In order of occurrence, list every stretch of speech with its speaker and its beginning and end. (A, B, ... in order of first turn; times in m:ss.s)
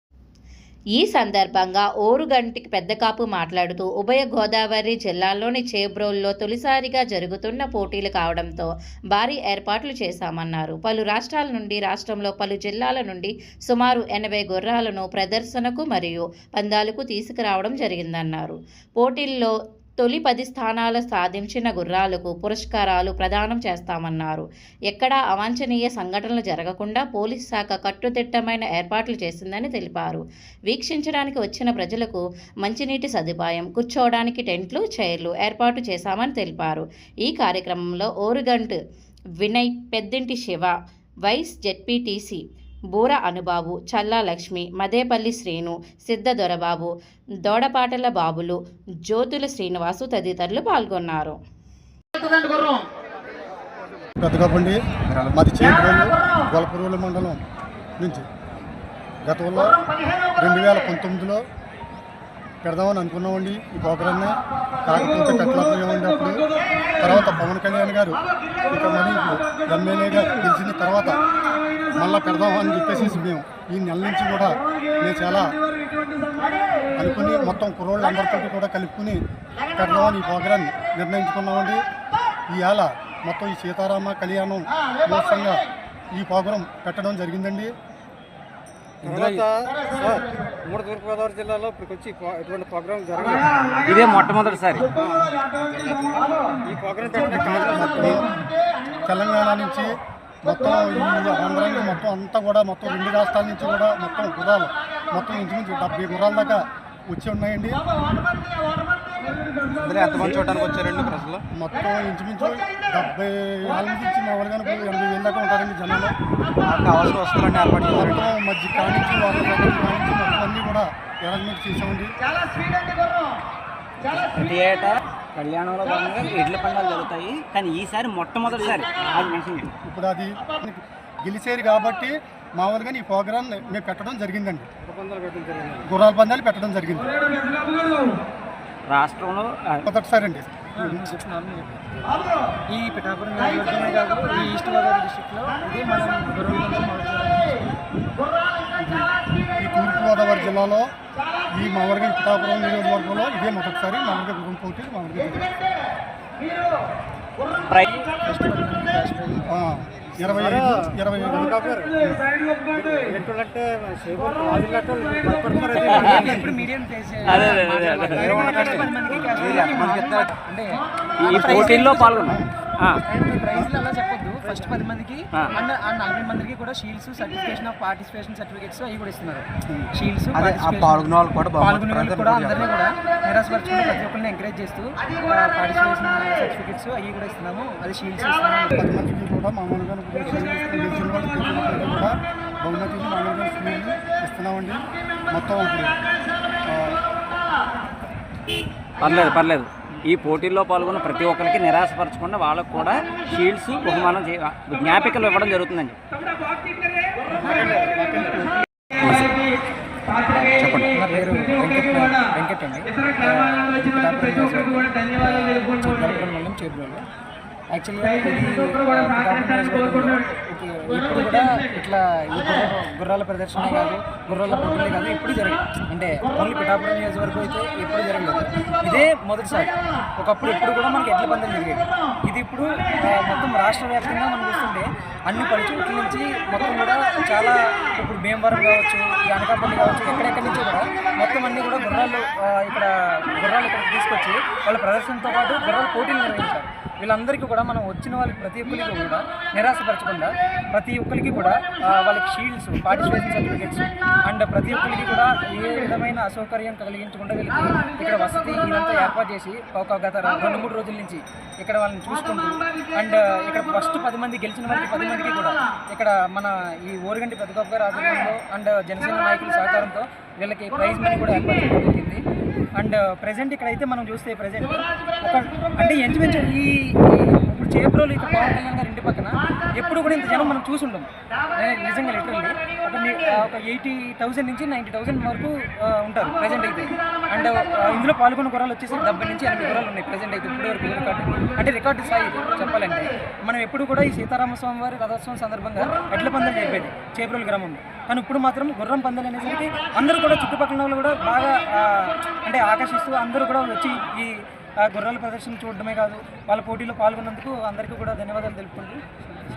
0:01.0-0:38.8 A
0:39.4-0:40.7 A
0:41.3-0:46.9 A
0:47.4-0:51.4 A
0:54.2-0:57.4 B
0:58.0-0:58.3 B
0:59.3-0:59.8 B
1:00.4-1:01.4 B
1:02.6-1:06.4 B
1:07.0-1:11.2 B
1:12.0-1:15.6 B
1:17.0-1:19.2 B
1:19.7-1:21.8 B
1:22.5-1:25.6 B
1:26.1-1:27.7 B
1:29.0-1:33.8 C
1:33.9-1:34.9 D
1:34.9-1:35.4 C
1:35.9-1:38.3 C
1:37.4-1:38.3 B
1:39.1-1:39.9 B
1:40.4-1:47.8 B
1:49.7-1:51.4 C
1:51.6-1:56.2 B
1:56.6-1:58.2 C
1:57.9-2:02.1 B
2:04.0-2:09.7 D
2:09.9-2:14.7 B
2:14.8-2:15.9 C
2:15.9-2:17.1 B
2:18.9-2:19.8 D
2:19.8-2:21.1 B
2:20.8-2:22.2 E
2:22.7-2:27.6 E
2:28.8-2:30.9 B
2:31.5-2:35.5 B
2:37.8-2:39.5 E
2:39.5-2:41.5 B
2:40.4-2:42.1 C
2:42.7-2:46.6 C
2:45.9-2:46.3 D
2:45.9-2:50.7 E
2:47.2-2:48.4 D
2:48.2-2:50.3 C
2:51.2-2:53.0 D
2:51.3-2:52.4 E
2:53.1-3:08.9 E
2:59.7-3:02.7 C
3:08.8-3:16.0 B
3:16.7-3:17.0 B
3:19.0-3:26.0 D
3:27.5-3:28.4 C
3:29.0-3:29.3 C
3:30.5-3:30.9 D
3:30.6-3:30.9 C
3:30.9-3:37.1 E
3:37.7-4:32.2 E
4:32.8-5:09.0 E